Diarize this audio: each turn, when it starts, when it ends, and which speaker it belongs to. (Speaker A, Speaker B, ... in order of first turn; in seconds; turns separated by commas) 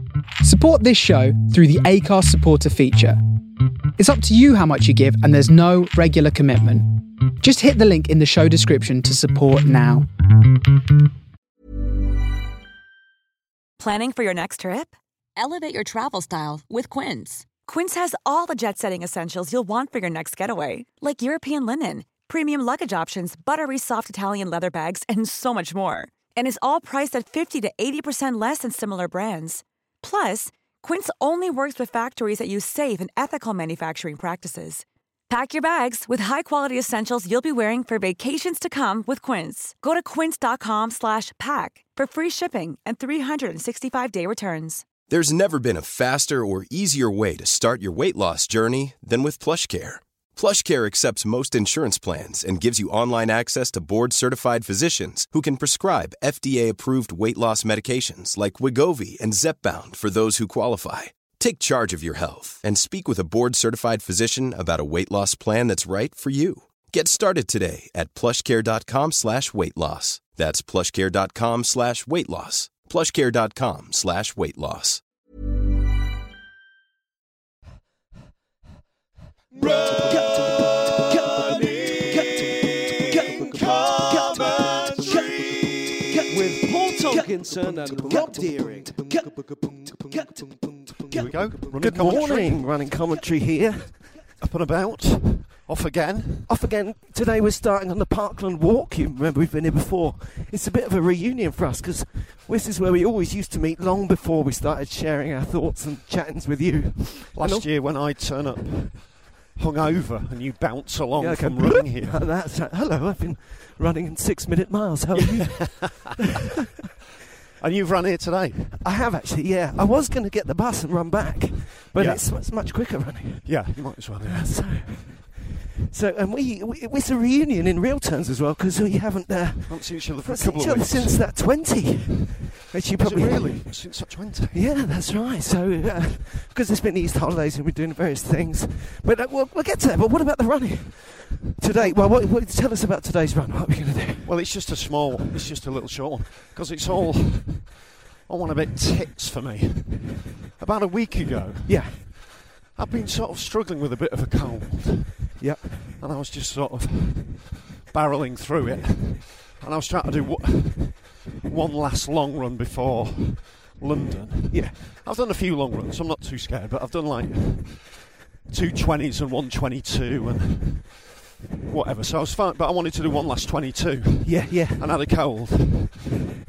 Speaker A: 0.4-3.2, Speaker A: 4.0-10.1, Speaker B: 13.8-44.8, Speaker C: 45.1-75.0, Speaker D: 79.5-80.3, Speaker E: 80.2-81.8, Speaker D: 81.0-86.3, Speaker E: 86.2-90.8, Speaker D: 91.0-92.8, Speaker E: 91.6-94.0, Speaker D: 94.4-96.5, Speaker E: 96.5-107.7, Speaker D: 107.3-112.2, Speaker E: 111.2-116.4, Speaker D: 115.2-116.1, Speaker D: 117.6-118.8, Speaker E: 118.8-133.9, Speaker D: 121.9-122.5, Speaker D: 123.4-124.5, Speaker D: 129.7-131.3, Speaker D: 133.0-134.6, Speaker E: 134.5-144.5, Speaker D: 144.2-155.4, Speaker E: 151.7-152.0, Speaker E: 155.4-156.0, Speaker D: 156.0-171.0, Speaker E: 164.5-164.8, Speaker D: 171.7-176.1, Speaker E: 174.2-174.8